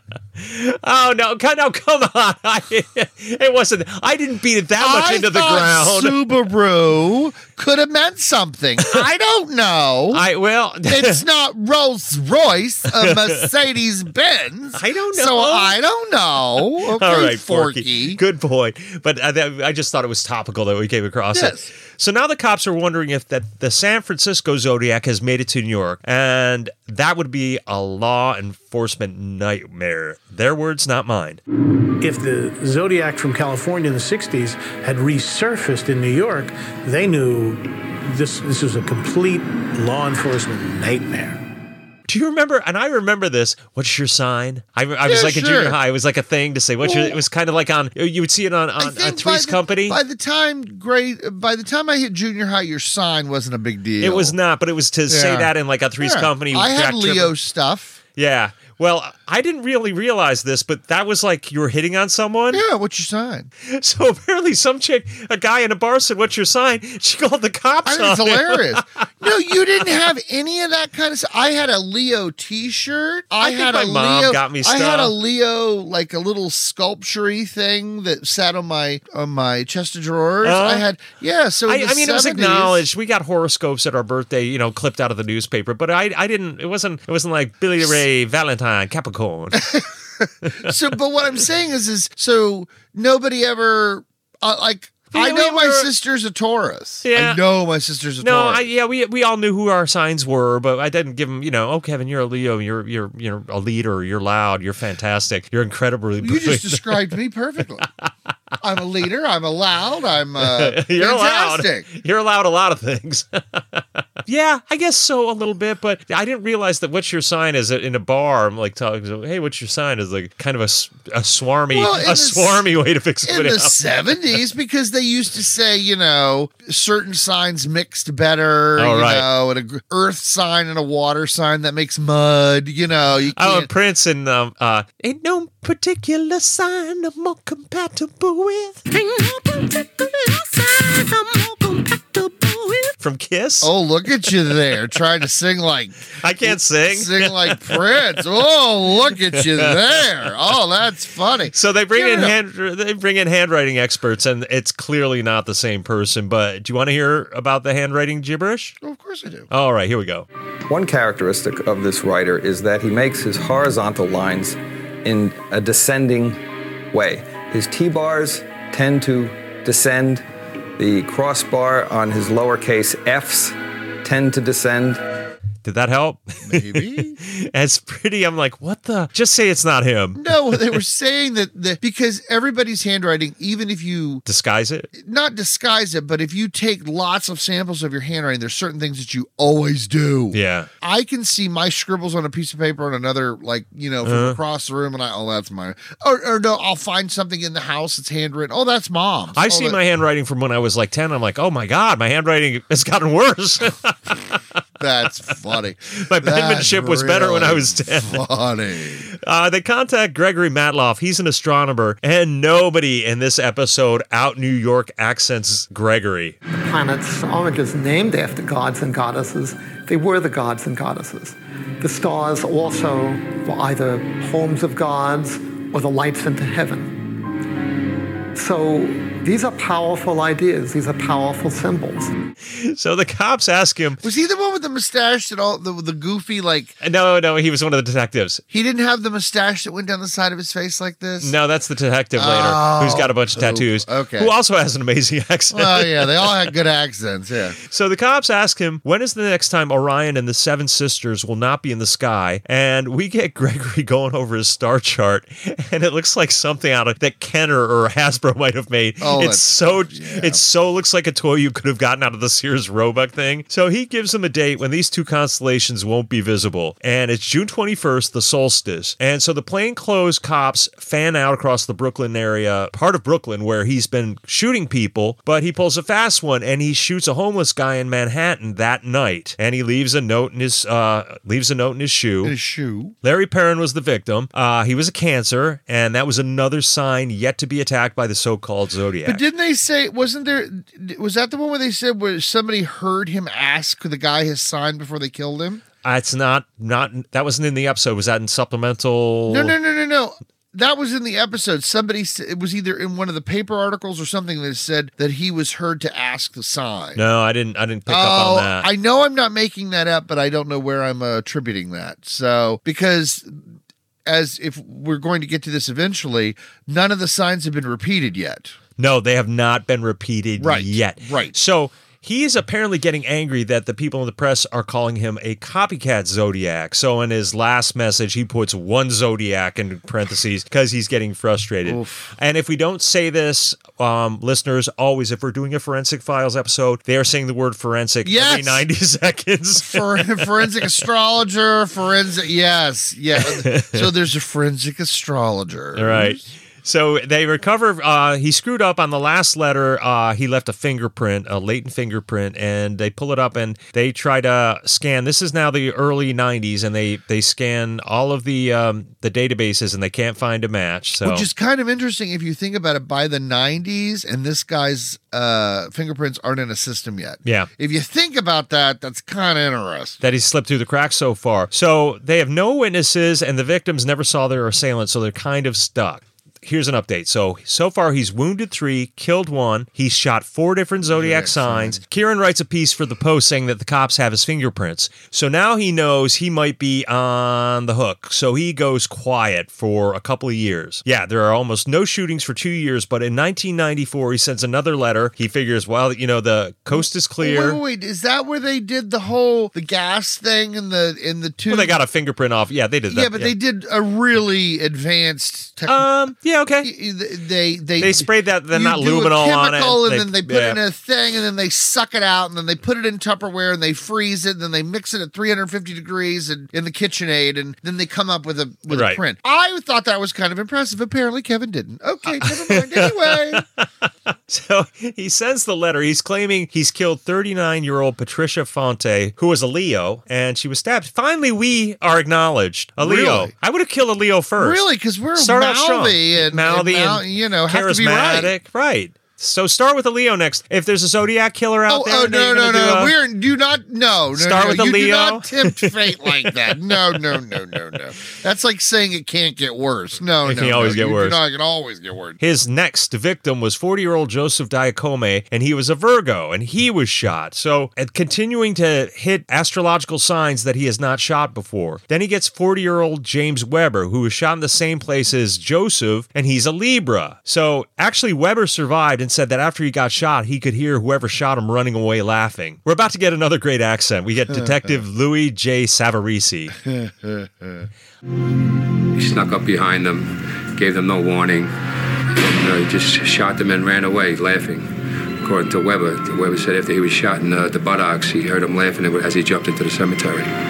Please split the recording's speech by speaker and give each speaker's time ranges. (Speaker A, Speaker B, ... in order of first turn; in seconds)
Speaker A: 0.4-6.2, 10.1-11.2, 13.0-13.4, 14.7-15.8, 16.5-31.4, 42.1-50.0, 54.0-57.3, 58.1-62.6, 63.6-68.8, 73.4-75.1, 80.4-80.8, 81.7-89.7, 90.4-90.7, 95.1-95.9, 97.0-97.4, 98.2-107.1, 110.4-123.8, 128.8-129.3, 133.3-138.8, 143.0-143.7, 146.2-148.3, 149.3-150.1, 151.5-158.8, 159.5-160.3, 175.6-180.8, 184.2-184.9, 190.3-190.7, 194.0-194.4, 199.3-204.4, 205.9-208.2, 209.1-216.4, 232.4-234.0, 236.8-238.4, 241.2-246.5, 247.6-282.3, 283.0-289.2, 295.8-299.5, 306.9-308.7, 318.8-340.8, 343.1-343.9, 345.7-361.3, 367.2-367.5, 370.0-397.6, 401.5-403.3, 405.7-406.7, 407.8-410.6, 418.7-419.0, 422.1-434.6, 435.1-442.9, 444.1-447.7, 450.2-451.2, 452.2-476.5
Speaker B: 4.8-10.2, 10.8-18.2, 21.3-21.7, 45.0-45.8, 46.8-47.2, 48.8-54.4, 55.1-58.0, 62.5-63.5, 67.8-82.8, 89.5-98.6, 106.2-107.9, 108.6-111.9, 121.7-122.7, 123.2-133.7, 143.6-152.4, 158.8-159.5, 176.4-177.2, 180.2-184.2, 185.0-199.8, 204.8-209.1, 234.0-236.7, 238.5-241.3, 242.2-244.3, 245.5-247.6, 259.0-260.4, 282.2-282.9, 289.0-295.6, 299.3-307.0, 307.9-313.5, 314.1-318.5, 320.4-321.3, 331.6-332.1, 338.0-338.6, 339.6-346.2, 361.0-370.0, 380.9-381.8, 396.7-401.8, 402.9-405.9, 406.6-423.4, 432.8-433.3, 434.4-438.3, 441.7-452.2, 474.3-474.6, 476.7-477.6
Speaker C: 32.0-41.4
Speaker D: 138.9-142.9, 216.5-227.0, 228.3-232.1
Speaker E: 160.7-170.2, 170.8-175.0
Speaker F: 478.9-481.5, 482.1-490.3